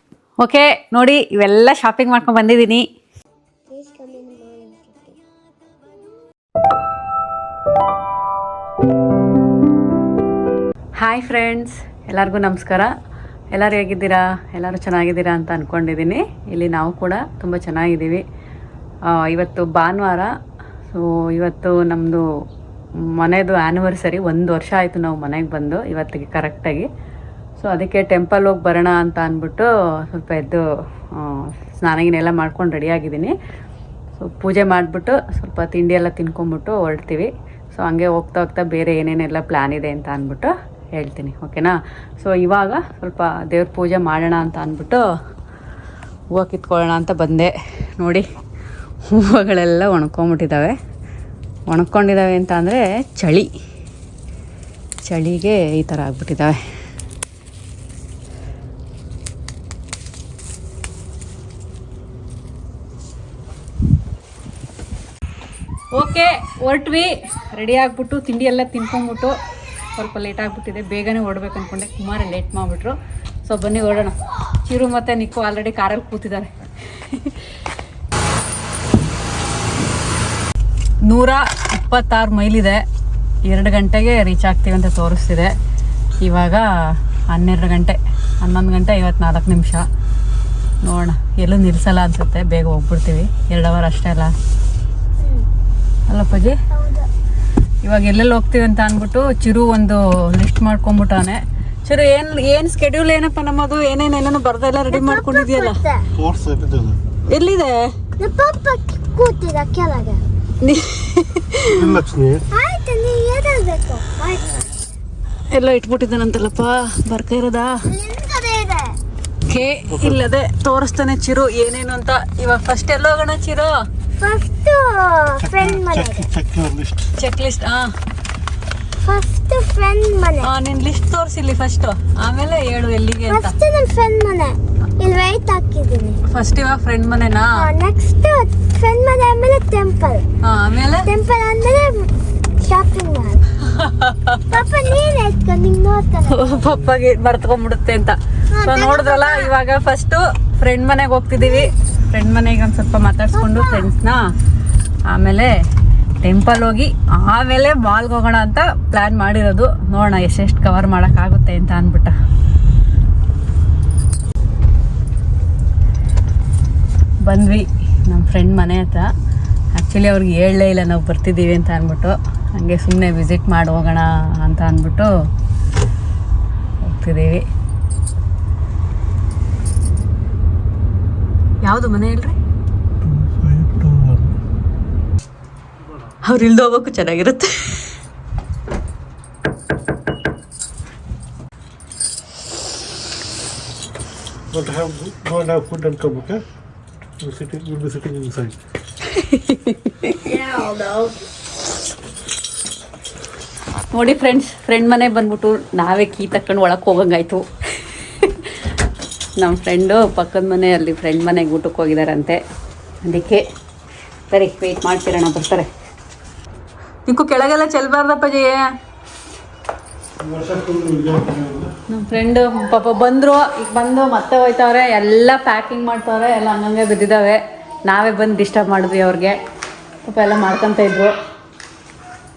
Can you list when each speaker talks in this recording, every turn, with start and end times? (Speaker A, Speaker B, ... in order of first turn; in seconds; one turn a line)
Speaker A: 0.4-2.9
Speaker B: 3.7-5.2
Speaker A: 11.0-12.9
Speaker A: 13.5-18.2
Speaker A: 19.1-20.3
Speaker A: 20.9-22.2
Speaker A: 23.1-26.9
Speaker A: 27.6-30.6
Speaker A: 31.1-33.3
Speaker A: 34.2-45.0
Speaker A: 46.3-48.3
Speaker A: 49.0-50.8
Speaker A: 51.7-53.5
Speaker A: 55.0-56.6
Speaker A: 65.9-69.4
Speaker A: 70.0-77.3
Speaker A: 81.1-82.8
Speaker A: 83.5-85.5
Speaker A: 86.2-89.8
Speaker A: 90.8-94.3
Speaker B: 95.2-95.5
Speaker A: 96.1-96.6
Speaker B: 96.7-97.1
Speaker A: 97.8-105.8
Speaker B: 104.9-106.1
Speaker C: 106.2-107.0
Speaker A: 107.3-108.0
Speaker B: 108.2-110.2
Speaker A: 110.6-111.9
Speaker C: 111.7-112.5
Speaker B: 112.5-114.6
Speaker A: 115.5-117.9
Speaker B: 117.9-119.0
Speaker A: 119.5-123.8
Speaker C: 119.9-120.2
Speaker B: 124.2-126.3
Speaker C: 125.4-127.1
Speaker A: 127.2-127.9
Speaker B: 129.0-130.5
Speaker A: 130.4-133.5
Speaker B: 133.3-136.2
Speaker A: 136.3-137.7
Speaker B: 137.6-140.2
Speaker A: 140.4-141.1
Speaker B: 141.0-142.1
Speaker B: 142.6-143.4
Speaker A: 143.7-144.5
Speaker B: 144.5-146.6
Speaker A: 146.3-154.2
Speaker B: 148.5-149.5
Speaker B: 151.4-151.7
Speaker B: 153.3-153.9
Speaker A: 155.1-155.6
Speaker A: 156.2-162.1
Speaker A: 167.2-169.1
Speaker A: 169.7-175.1
Speaker A: 176.8-177.4
Speaker A: 181.6-182.4
Speaker C: 183.0-184.3
Speaker A: 186.2-187.9
Speaker C: 194.5-196.4
Speaker C: 197.2-198.6
Speaker A: 199.1-200.4
Speaker A: 203.9-208.5
Speaker A: 209.4-212.4
Speaker A: 213.0-213.4
Speaker A: 214.3-215.7
Speaker A: 217.1-218.7
Speaker C: 220.2-221.7
Speaker A: 221.9-229.4
Speaker A: 230.0-231.1